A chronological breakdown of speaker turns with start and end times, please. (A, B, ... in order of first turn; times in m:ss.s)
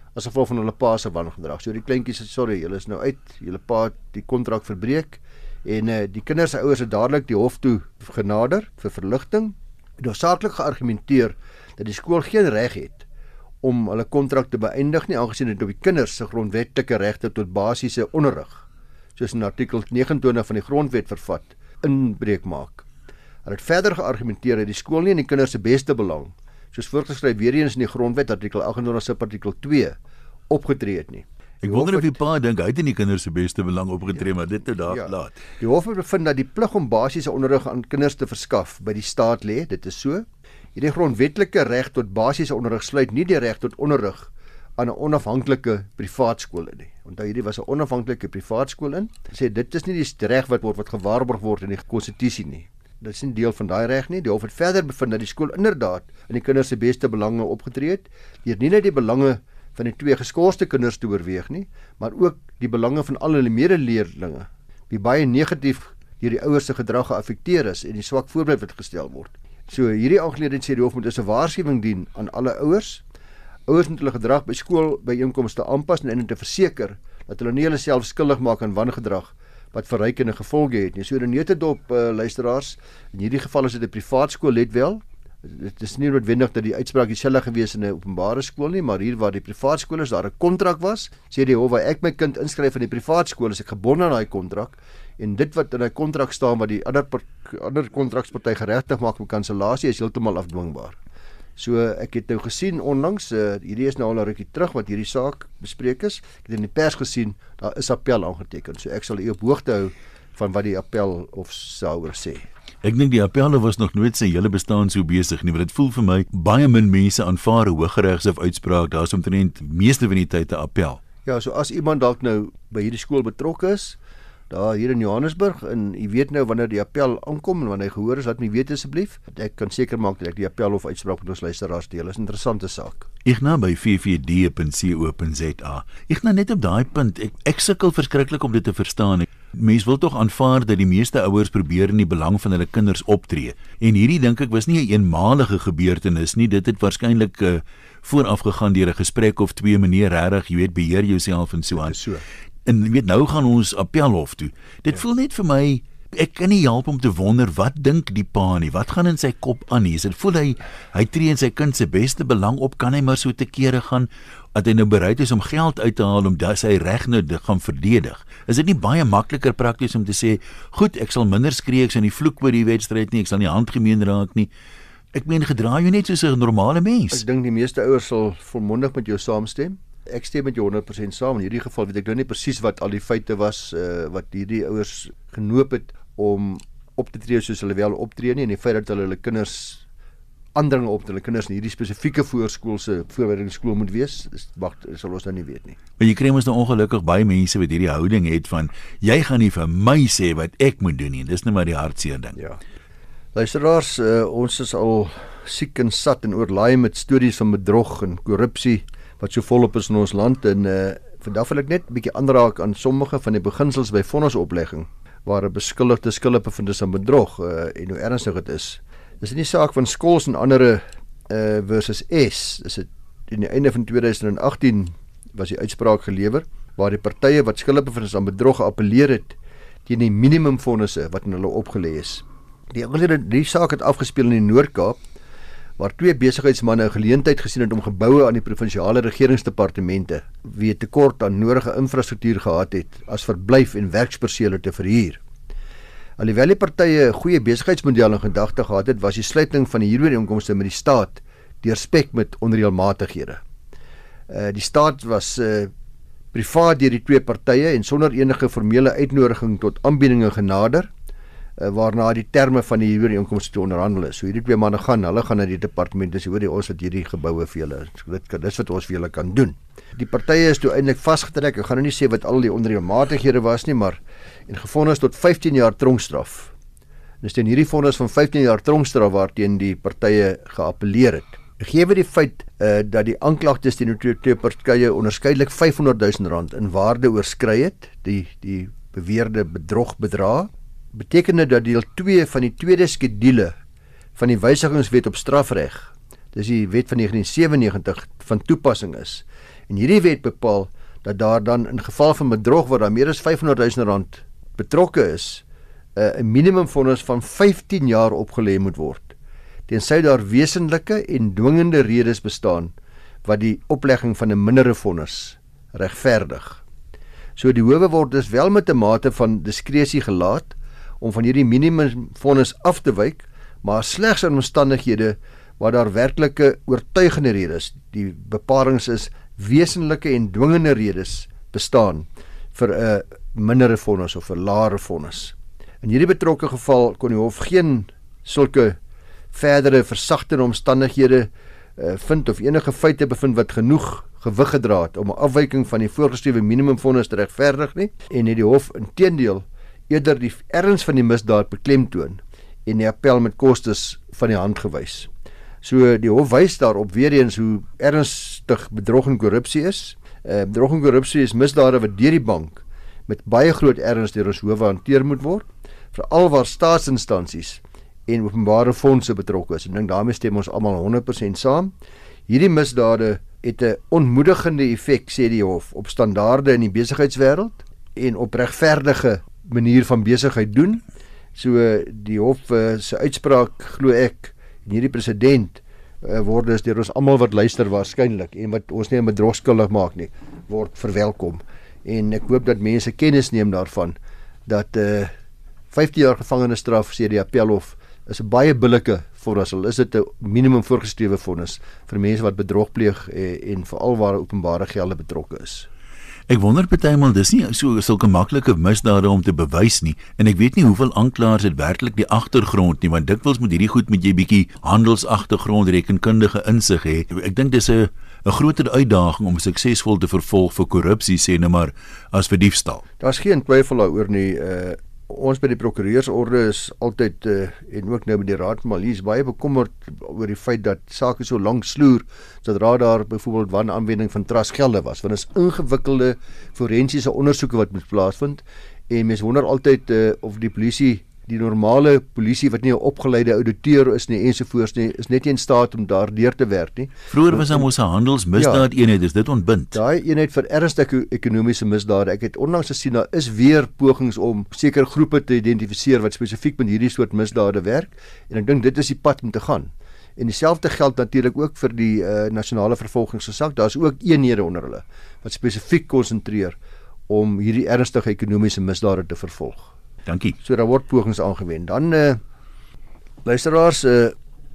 0:00.1-0:13.0 A
0:13.6-0:18.6 A
0:19.2-0:22.8 A
0:23.4-0:30.0 A
0:30.5-0:32.2 A
0:31.6-0:35.4 B
0:34.9-1:13.0 A
1:13.7-1:41.0 A
1:41.6-1:52.5 A
1:52.8-2:01.0 B
2:01.2-2:04.0 A
2:04.5-2:13.1 A
2:13.2-2:32.0 B
2:31.8-2:32.2 A
2:32.6-2:54.5 B
2:55.1-2:57.2 B
2:57.1-3:09.8 A
3:10.6-3:15.8 A
3:16.0-3:22.4 B
3:23.3-3:55.0 A
3:55.8-4:05.2 A
4:06.2-4:13.4 A
4:14.3-4:15.7 A
4:16.3-4:20.9 A
4:21.6-4:36.5 A
4:37.2-4:53.5 A
4:54.1-5:05.4 A
5:06.0-5:09.1 A
5:09.7-5:16.6 A
5:17.4-5:38.8 A
5:39.3-5:55.1 A
5:55.6-6:11.7 A
6:12.3-6:20.8 A
6:21.3-6:35.1 A
6:35.7-6:45.7 A
6:46.3-7:02.8 B
7:03.0-7:27.7 A
7:27.1-7:29.8 B
7:28.4-7:28.7 A
7:29.7-7:46.6 A
7:47.1-7:49.7 A
7:50.0-7:50.4 B
7:50.4-7:52.2 A
7:53.2-7:54.2 A